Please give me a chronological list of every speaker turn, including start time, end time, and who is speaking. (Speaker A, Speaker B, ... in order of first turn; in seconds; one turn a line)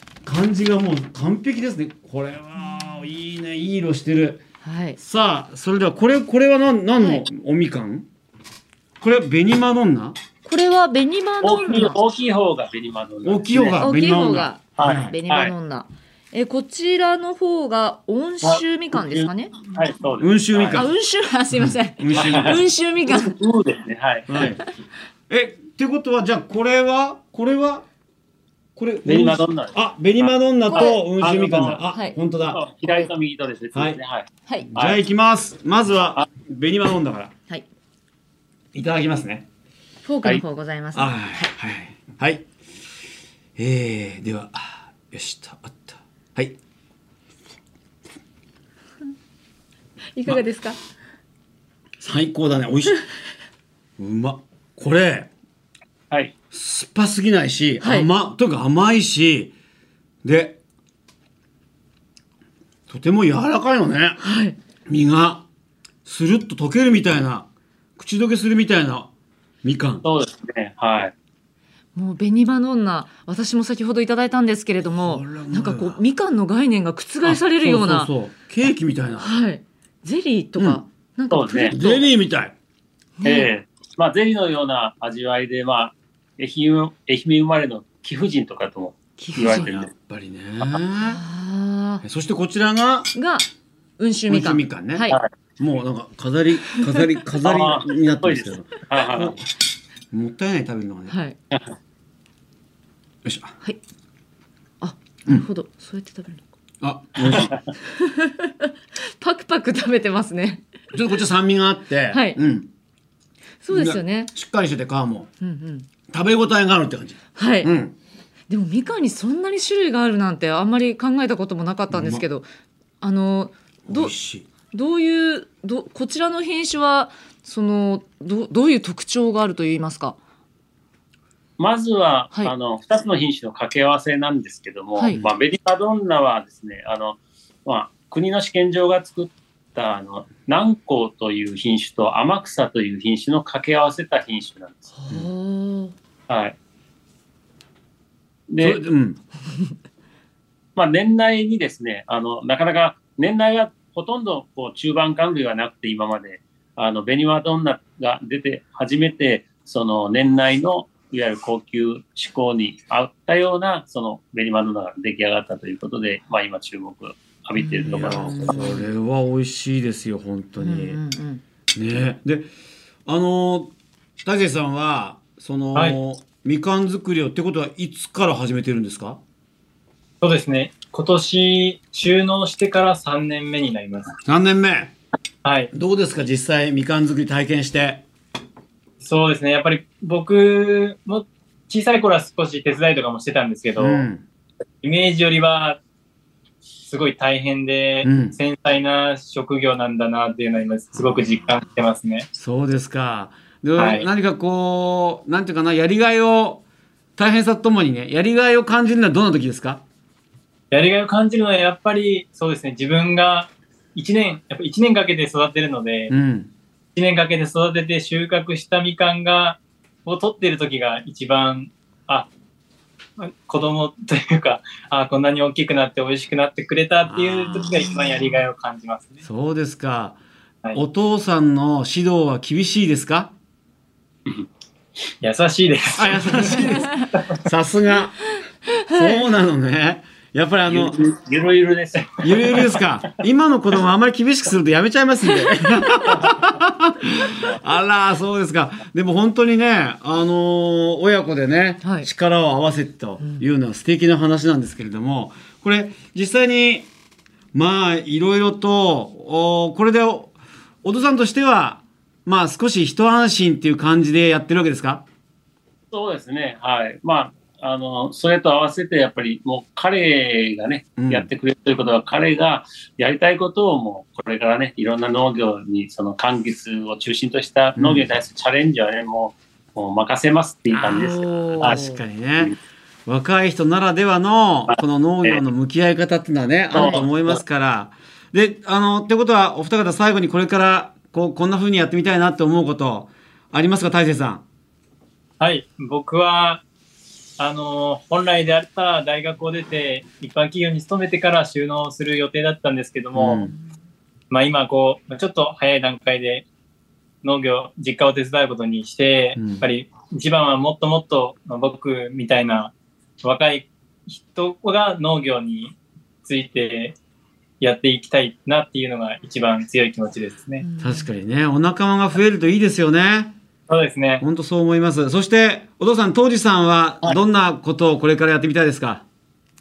Speaker A: 0.2-4.4
Speaker B: 4.6-5.0
Speaker A: 5.0-8.1
Speaker B: 7.0-7.2
Speaker A: 9.0-10.2
Speaker B: 10.4-12.0
Speaker C: 11.4-13.8
Speaker A: 13.2-15.1
Speaker B: 13.8-19.6
Speaker C: 14.8-15.5
Speaker C: 18.4-20.8
Speaker A: 20.2-20.9
Speaker B: 20.7-23.3
Speaker A: 21.5-22.6
Speaker C: 22.1-24.4
Speaker A: 24.3-24.6
Speaker A: 25.3-27.9
Speaker A: 28.8-32.6
Speaker C: 29.1-31.8
Speaker B: 30.7-31.0
Speaker B: 31.9-32.2
Speaker C: 32.5-35.0
Speaker A: 34.6-37.3
Speaker A: 38.7-39.5
Speaker B: 40.0-41.4
Speaker A: 40.9-42.5
Speaker A: 43.6-46.6
Speaker B: 50.1-50.8
Speaker A: 52.0-53.0
Speaker A: 54.0-55.3
Speaker A: 56.5-59.5
Speaker B: 57.8-58.1
Speaker A: 60.2-60.6
Speaker A: 62.9-64.2
Speaker B: 64.2-64.6
Speaker A: 64.9-65.5
Speaker A: 66.0-69.1
Speaker A: 69.6-70.0
Speaker C: 70.0-71.1
Speaker B: 72.0-78.1
Speaker A: 74.9-76.0
Speaker A: 77.2-79.3
Speaker B: 79.2-82.1
Speaker A: 80.6-80.8
Speaker C: 81.3-81.8
Speaker A: 81.7-82.5
Speaker B: 83.2-83.5
Speaker C: 83.2-89.9
Speaker B: 89.2-89.7
Speaker A: 89.3-91.2
Speaker B: 91.1-92.0
Speaker A: 92.0-93.1
Speaker B: 93.1-93.5
Speaker B: 94.0-95.2
Speaker A: 94.3-99.4
Speaker C: 97.4-99.4
Speaker A: 100.1-101.1
Speaker B: 101.1-101.4
Speaker A: 103.2-103.5
Speaker B: 104.8-106.5
Speaker A: 106.8-107.6
Speaker C: 107.3-107.6
Speaker B: 107.9-110.6
Speaker A: 110.9-112.7
Speaker B: 112.1-112.4
Speaker B: 113.6-114.3
Speaker A: 113.7-115.3
Speaker B: 115.4-115.9
Speaker A: 116.1-117.9
Speaker B: 117.4-117.7
Speaker B: 118.5-122.5
Speaker A: 121.9-122.2
Speaker B: 123.0-124.1
Speaker A: 123.9-124.5
Speaker B: 124.7-130.2
Speaker C: 131.6-144.9
Speaker B: 144.9-145.9
Speaker C: 146.3-146.6
Speaker C: 148.5-148.8
Speaker A: 148.6-149.2
Speaker C: 150.8-168.6
Speaker B: 167.6-168.9
Speaker A: 167.9-171.0
Speaker B: 170.6-171.4
Speaker A: 171.8-172.5
Speaker A: 173.1-173.7
Speaker A: 174.2-179.2
Speaker D: 180.2-184.1
Speaker A: 184.2-185.0
Speaker D: 185.4-185.7
Speaker A: 185.7-188.0
Speaker D: 189.0-194.1
Speaker A: 193.8-194.2
Speaker D: 194.8-195.8
Speaker D: 196.9-202.3
Speaker A: 198.0-198.4
Speaker A: 200.9-201.4
Speaker A: 202.3-206.6
Speaker D: 203.8-204.1
Speaker A: 207.2-209.8
Speaker D: 210.7-216.1
Speaker A: 216.1-216.5
Speaker D: 216.9-222.3
Speaker D: 223.2-229.2
Speaker A: 227.1-227.9
Speaker A: 229.2-230.2
Speaker A: 230.7-233.3
Speaker D: 235.2-237.3
Speaker A: 236.0-238.2
Speaker A: 238.9-240.9
Speaker C: 240.6-242.8
Speaker A: 242.2-256.9
Speaker B: 251.8-252.1
Speaker A: 257.5-265.0
Speaker C: 265.9-281.9
Speaker A: 271.0-271.3
Speaker A: 277.8-278.1
Speaker A: 280.7-282.5
Speaker B: 281.3-282.0
Speaker A: 283.1-294.4
Speaker C: 284.7-285.4
Speaker C: 286.7-287.4
Speaker D: 295.4-296.6
Speaker D: 297.4-303.4
Speaker A: 303.1-303.6
Speaker D: 304.3-306.5
Speaker D: 307.2-317.0
Speaker A: 309.4-309.6
Speaker D: 317.6-320.6
Speaker B: 320.6-321.1
Speaker A: 320.8-323.3
Speaker D: 323.7-324.2
Speaker A: 324.2-329.0